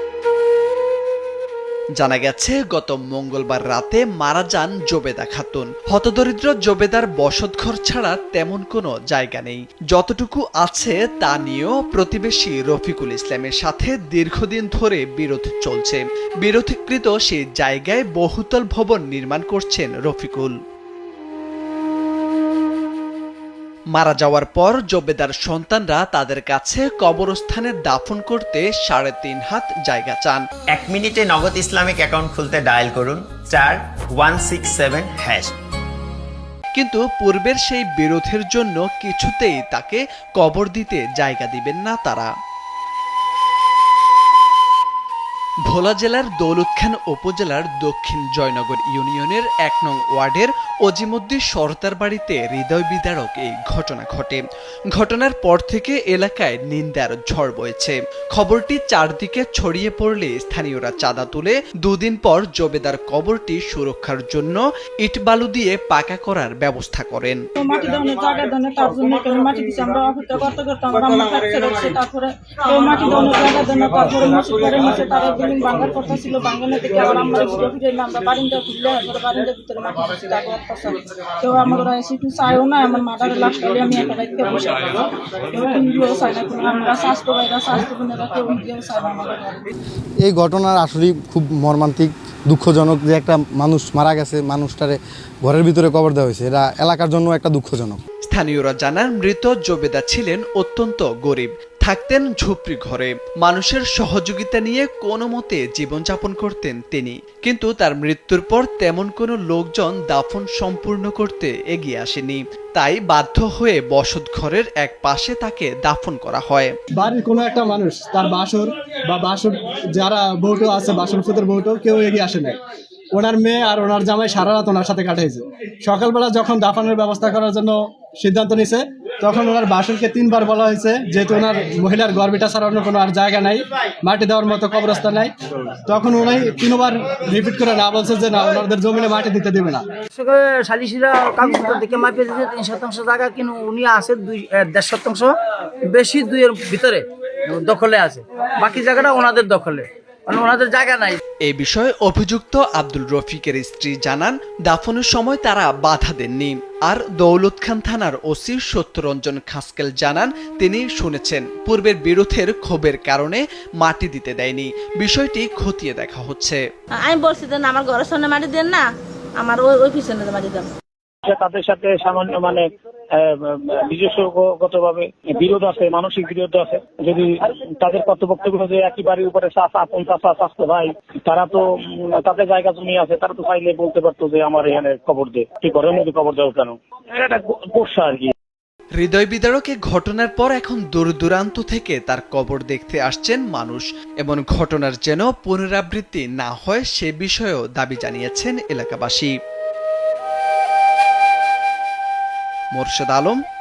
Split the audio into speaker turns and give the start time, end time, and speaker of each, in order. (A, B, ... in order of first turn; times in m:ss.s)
0:02.0-0:20.6 A
0:24.0-0:30.5 A
0:30.7-0:35.5 B
0:36.8-0:42.3 A
0:45.7-1:07.4 A
1:07.6-1:29.6 C
1:30.2-1:38.0 D
1:38.3-1:56.7 A
1:57.0-2:02.6 E
2:03.2-2:15.3 E
2:15.9-2:19.8 E
2:20.1-2:25.4 F
2:25.9-2:31.2 F
2:31.4-2:46.6 A
2:47.0-2:48.9 G
2:49.4-2:50.7 G
2:51.2-3:08.3 H
3:09.0-3:19.3 A
3:22.8-3:23.4 A